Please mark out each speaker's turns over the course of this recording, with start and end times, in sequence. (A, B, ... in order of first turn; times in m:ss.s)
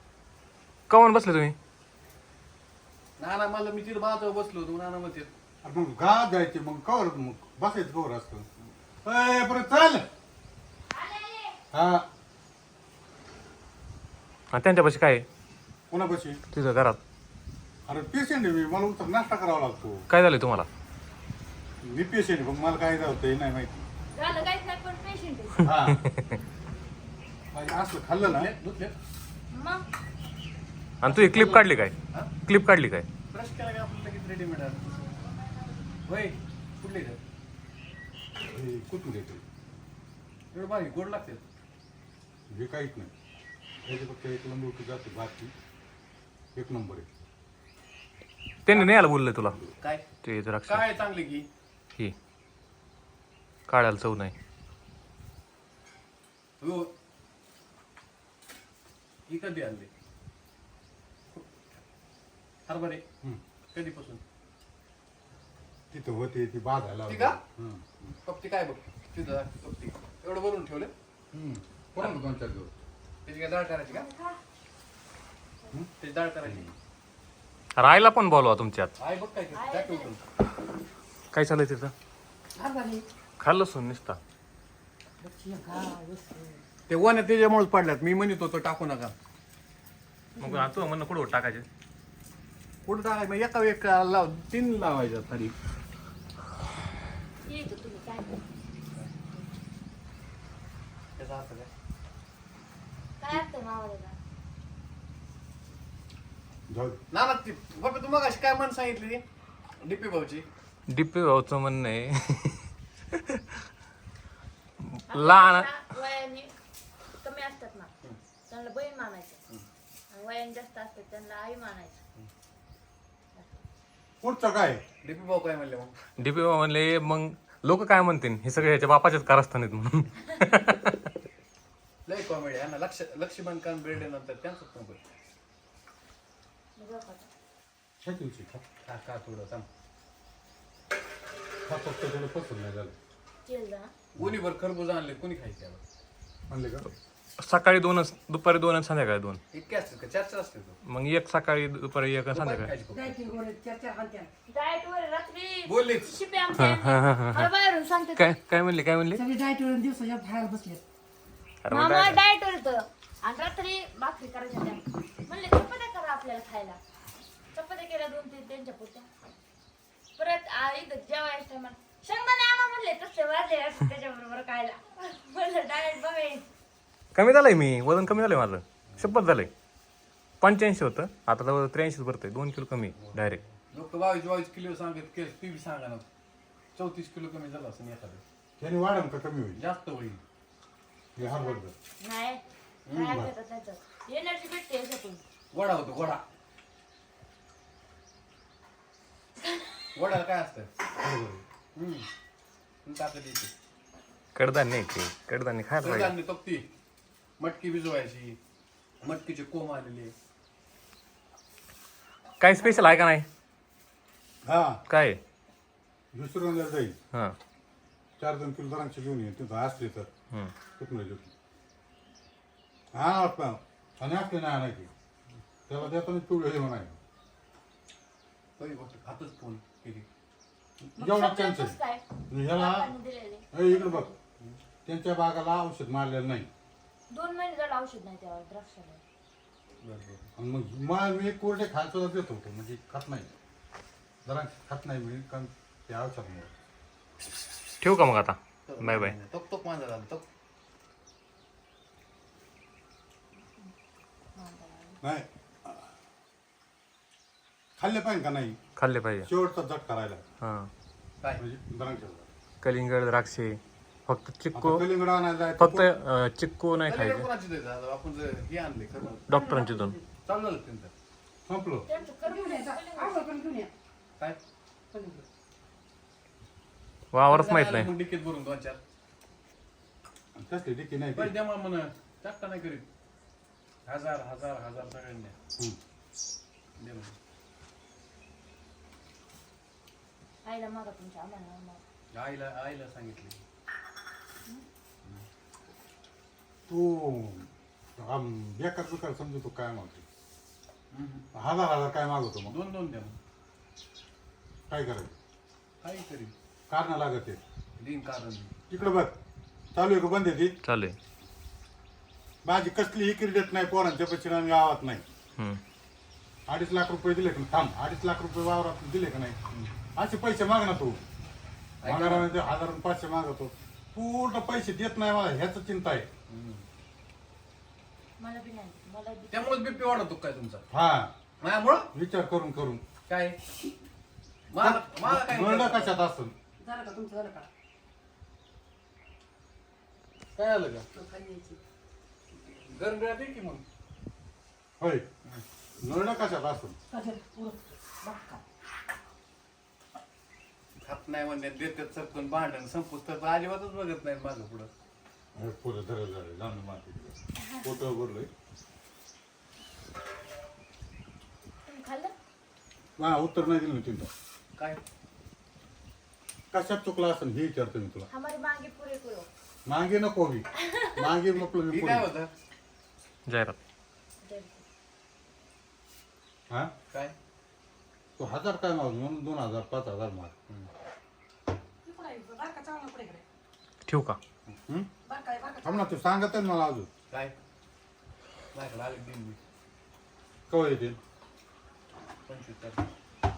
0:00.9-0:01.6 A
0:03.2-0:05.3 B
0:05.6-0:08.4 C
0:09.0-0:10.0 C
0:10.9-0:11.6 D
0:11.7-0:12.0 C
0:14.5-0:15.2 A
0:15.9-0:16.4 C
0:16.5-0:17.0 A
0:17.9-0:20.1 C
0:20.1-0:20.7 A
0:21.8-0:23.8 C
0:24.1-0:25.7 D
0:25.6-0:26.1 C
0:25.7-0:26.1 A
0:27.5-0:28.5 C
0:28.2-0:29.0 B
0:29.5-0:29.8 D
0:31.0-0:32.0 A
0:31.0-0:32.3 B
0:32.5-0:33.1 A
0:33.3-0:35.1 B
0:36.1-0:37.2 B
0:38.4-0:39.4 C
0:40.5-0:41.4 B
0:42.5-0:43.1 C
0:43.8-0:45.5 C
0:46.6-0:47.1 C
0:48.7-0:49.6 A
0:48.7-0:49.0 B
0:49.8-0:50.1 B
0:50.2-0:50.9 A
0:50.6-0:51.5 B
0:53.7-0:54.3 A
0:56.6-0:56.9 B
0:59.3-0:59.9 B
1:02.7-1:03.0 B
1:03.7-1:04.2 B
1:05.9-1:07.9 C
1:07.1-1:07.4 B
1:08.2-1:10.9 B
1:11.3-1:12.8 C
1:13.2-1:14.1 B
1:13.9-1:14.4 D
1:16.0-1:16.7 B
1:17.8-1:18.9 A
1:19.0-1:20.2 B
1:19.6-1:20.1 D
1:21.3-1:21.9 A
1:22.6-1:23.0 B
1:23.4-1:24.2 A
1:25.2-1:26.6 E
1:26.9-1:29.1 B
1:30.4-1:30.7 E
1:30.4-1:31.7 A
1:32.9-1:35.6 B
1:37.4-1:38.4 D
1:41.2-1:41.7 B
1:43.2-1:44.2 D
1:46.7-1:47.0 C
1:47.1-1:49.2 B
1:49.8-1:50.5 B
1:50.9-1:53.4 A
1:54.8-1:55.7 A
1:55.1-1:56.5 D
1:57.2-1:57.9 D
1:58.5-1:59.4 D
2:00.1-2:02.0 D
2:03.4-2:03.6 D
2:04.2-2:04.8 C
2:05.0-2:06.0 B
2:06.2-2:11.0 A
2:12.1-2:15.0 B
2:16.8-2:17.3 D
2:18.0-2:18.6 C
2:18.8-2:19.7 B
2:21.6-2:23.0 C
2:23.5-2:23.9 D
2:24.2-2:25.8 B
2:26.5-2:26.9 C
2:27.4-2:29.4 A
2:29.5-2:30.8 B
2:30.8-2:32.7 A
2:32.3-2:33.2 B
2:32.9-2:34.3 E
2:34.5-2:38.4 D
2:35.7-2:36.1 B
2:36.6-2:37.5 A
2:38.2-2:39.2 A
2:39.2-2:40.8 E
2:41.6-2:42.2 A
2:41.7-2:46.8 D
2:47.5-2:49.1 D
2:50.2-2:56.5 D
2:57.2-2:59.5 A
3:00.4-3:03.4 A
3:03.0-3:06.1 B
3:06.8-3:08.2 B
3:08.6-3:09.6 C
3:09.6-3:10.2 B
3:11.2-3:11.7 C
3:11.2-3:15.2 D
3:12.9-3:13.2 B
3:13.0-3:13.3 C
3:15.5-3:16.2 B
3:20.0-3:20.7 B
3:21.0-3:21.4 C
3:21.8-3:22.1 B
3:22.8-3:23.5 B
3:24.4-3:26.2 A
3:25.8-3:26.7 B
3:27.4-3:28.4 B
3:29.0-3:30.1 B
3:32.4-3:33.3 A
3:34.4-3:34.8 C
3:34.9-3:35.2 A
3:36.1-3:37.0 C
3:38.2-3:40.1 C
3:40.8-3:41.3 C
3:42.9-3:44.9 C
3:45.7-3:47.0 C
3:48.6-3:50.1 B
3:50.8-3:52.9 C
3:51.0-3:54.1 D
3:53.5-3:54.1 C
3:54.9-3:56.5 C
3:57.1-3:59.0 D
3:59.8-4:00.3 B
4:00.4-4:03.3 C
4:04.2-4:06.5 C
4:07.8-4:09.1 A
4:08.7-4:10.3 B
4:14.4-4:15.0 D
4:15.0-4:15.9 C
4:17.8-4:18.6 C
4:18.8-4:19.3 A
4:19.2-4:20.2 C
4:20.4-4:20.7 A
4:21.4-4:22.3 C
4:22.6-4:24.9 A
4:24.5-4:26.0 C
4:25.6-4:27.3 A
4:26.8-4:29.3 B
4:29.3-4:30.0 A
4:29.3-4:30.0 E
4:30.2-4:30.9 B
4:31.5-4:31.9 C
4:31.9-4:33.3 D
4:32.2-4:33.7 E
4:34.9-4:35.2 E
4:37.1-4:37.9 A
4:37.3-4:38.8 B
4:40.4-4:41.4 C
4:41.2-4:42.9 B
4:43.9-4:45.4 B
4:46.8-4:47.2 B
4:50.4-4:51.8 D
4:52.1-4:53.4 B
4:56.7-5:00.0 C
5:00.9-5:01.3 B
5:01.3-5:02.6 C
5:02.5-5:03.2 B
5:04.7-5:05.2 C
5:05.8-5:06.3 B
5:06.7-5:07.4 C
5:07.8-5:08.5 B
5:08.7-5:09.2 C
5:09.7-5:10.5 C
5:10.6-5:11.0 A
5:12.4-5:15.0 C
5:16.5-5:19.4 C
5:19.5-5:19.7 B
5:20.0-5:21.0 C
5:21.8-5:22.3 B
5:21.8-5:26.1 C
5:26.3-5:26.6 B
5:28.2-5:29.7 D
5:29.3-5:30.6 B
5:30.7-5:31.1 C
5:31.4-5:31.9 B
5:31.9-5:32.8 C
5:33.1-5:33.4 B
5:34.5-5:36.0 B
5:34.6-5:36.3 C
5:36.6-5:37.5 E
5:40.4-5:40.9 B
5:40.9-5:41.6 E
5:42.4-5:43.6 B
5:44.8-5:45.0 C
5:45.8-5:46.8 C
5:46.9-5:48.4 E
5:50.8-5:54.7 B
5:55.4-5:58.3 C
6:01.7-6:02.1 D
6:03.0-6:04.1 C
6:06.5-6:08.1 C
6:08.1-6:09.3 D
6:09.7-6:12.1 C
6:10.6-6:11.0 D
6:11.3-6:12.3 B
6:13.3-6:13.6 A
6:14.2-6:14.6 D
6:18.2-6:20.3 C
6:21.9-6:23.2 E
6:23.8-6:24.2 A
6:25.1-6:25.8 E
6:25.6-6:26.9 C
6:28.5-6:29.4 B
6:30.5-6:31.0 C
6:32.3-6:32.8 B